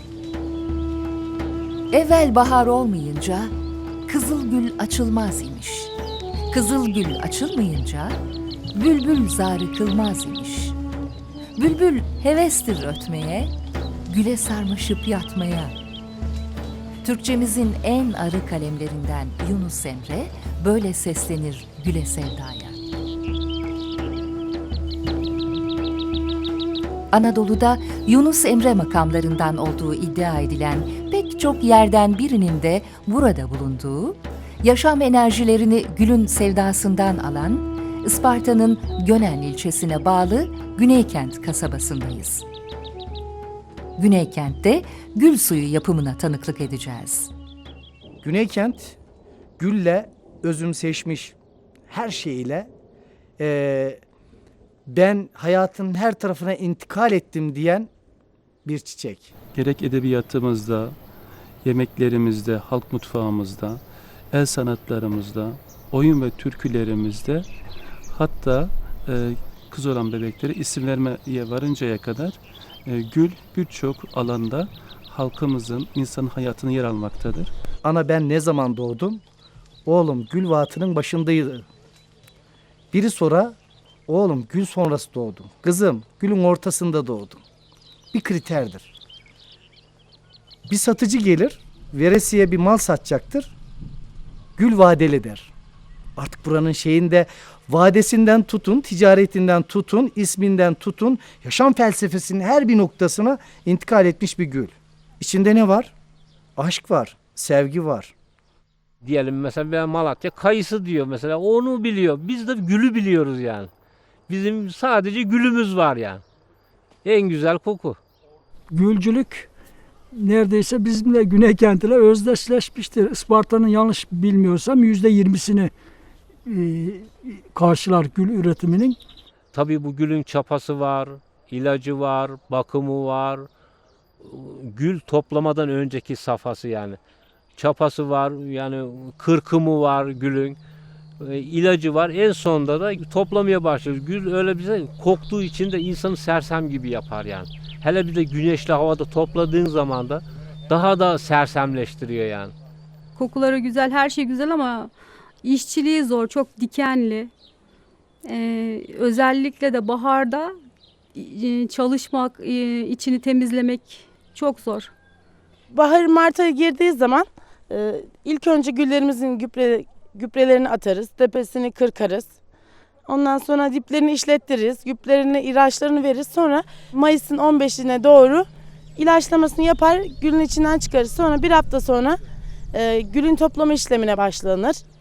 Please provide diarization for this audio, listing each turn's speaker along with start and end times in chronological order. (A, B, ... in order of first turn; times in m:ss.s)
0:01.9-0:03.5 A
0:04.1-0:05.9 A
0:06.5-0:08.2 A
0:08.7-0:10.8 A
0:11.6-0:13.5 A
0:14.1-0:15.9 A
0:17.0-0:22.8 A
0:27.1-0:42.4 A
0:44.0-0:47.3 A
0:48.2-0:49.0 B
0:49.6-0:51.4 B
0:51.9-0:52.7 B
0:53.4-0:54.0 B
0:54.9-0:57.9 B
0:58.6-0:59.3 B
0:59.5-1:01.0 C
1:01.6-1:07.5 C
1:08.1-1:17.5 C
1:17.8-1:19.2 B
1:19.9-1:21.7 B
1:22.9-1:23.6 B
1:24.1-1:27.4 B
1:28.1-1:28.9 B
1:30.7-1:33.5 B
1:34.6-1:35.5 B
1:36.2-1:45.9 B
1:46.6-1:48.1 B
1:49.0-1:53.7 D
1:54.3-1:56.2 D
1:57.0-1:58.0 D
1:58.7-1:59.5 E
2:00.1-2:05.7 E
2:06.5-2:09.0 E
2:09.5-2:13.5 D
2:14.2-2:17.0 D
2:17.6-2:20.6 D
2:21.2-2:32.5 D
2:33.2-2:34.9 F
2:35.4-2:37.3 F
2:38.2-2:40.5 F
2:41.1-2:44.9 F
2:45.7-2:52.3 G
2:53.1-2:58.5 G
2:59.0-3:02.2 G
3:02.7-3:04.8 G